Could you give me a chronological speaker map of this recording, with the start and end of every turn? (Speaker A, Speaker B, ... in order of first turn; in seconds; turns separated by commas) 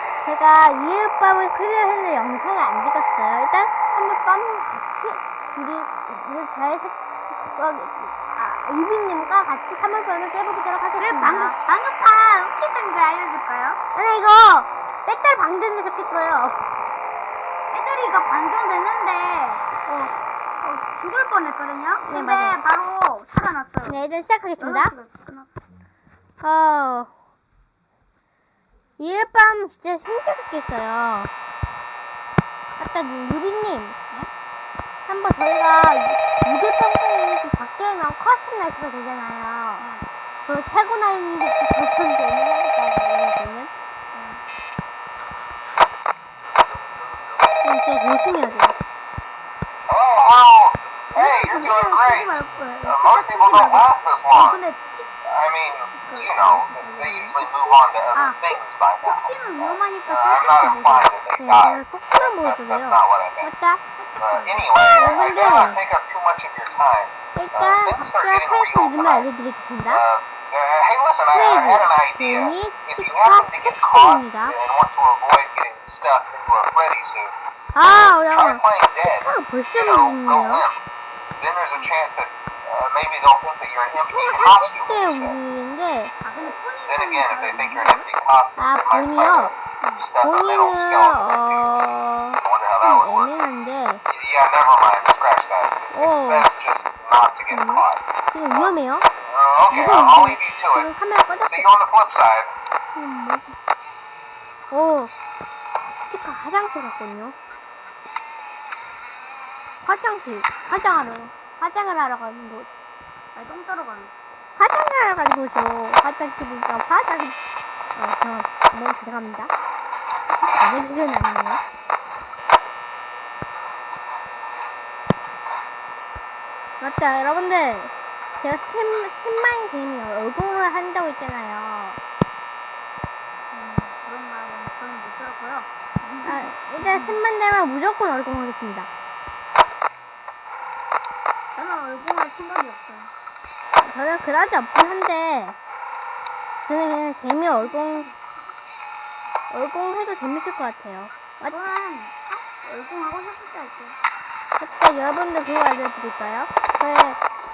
Speaker A: 0.2-6.9, Speaker A: 7.5-11.5, Speaker B: 11.0-13.8, Speaker A: 13.9-16.6, Speaker B: 17.7-24.0, Speaker A: 22.1-22.6, Speaker A: 23.8-24.9, Speaker B: 24.6-25.6, Speaker A: 26.4-27.1, Speaker A: 29.0-31.3, Speaker A: 32.8-34.0, Speaker A: 35.0-39.9, Speaker B: 39.8-40.0, Speaker A: 40.5-43.7, Speaker B: 44.1-44.4, Speaker A: 47.6-48.8, Speaker C: 49.9-54.6, Speaker B: 51.1-55.1, Speaker C: 55.2-63.5, Speaker B: 56.0-61.1, Speaker A: 61.4-63.8, Speaker B: 64.0-64.8, Speaker C: 64.2-69.3, Speaker A: 64.8-65.8, Speaker A: 67.3-70.0, Speaker C: 69.9-80.8, Speaker A: 71.3-74.5, Speaker A: 77.7-80.7, Speaker C: 81.4-85.3, Speaker A: 84.1-86.1, Speaker B: 86.2-88.1, Speaker C: 86.9-91.6, Speaker A: 88.6-89.5, Speaker A: 90.2-94.0, Speaker C: 92.4-93.3, Speaker C: 94.1-98.0, Speaker A: 95.9-96.5, Speaker A: 97.5-99.1, Speaker C: 99.2-100.9, Speaker A: 99.7-101.7, Speaker C: 101.4-102.5, Speaker A: 102.9-103.5, Speaker A: 104.7-105.1, Speaker A: 106.0-107.4, Speaker A: 109.8-112.7, Speaker B: 113.3-114.1, Speaker A: 114.5-117.4, Speaker A: 117.9-119.5, Speaker A: 120.5-121.6, Speaker A: 126.8-132.0, Speaker B: 133.5-137.2, Speaker A: 136.2-138.9, Speaker B: 141.5-143.1, Speaker A: 143.8-145.6, Speaker A: 146.6-148.1, Speaker B: 147.6-148.1, Speaker A: 149.5-151.6, Speaker B: 151.5-154.0, Speaker A: 154.6-157.2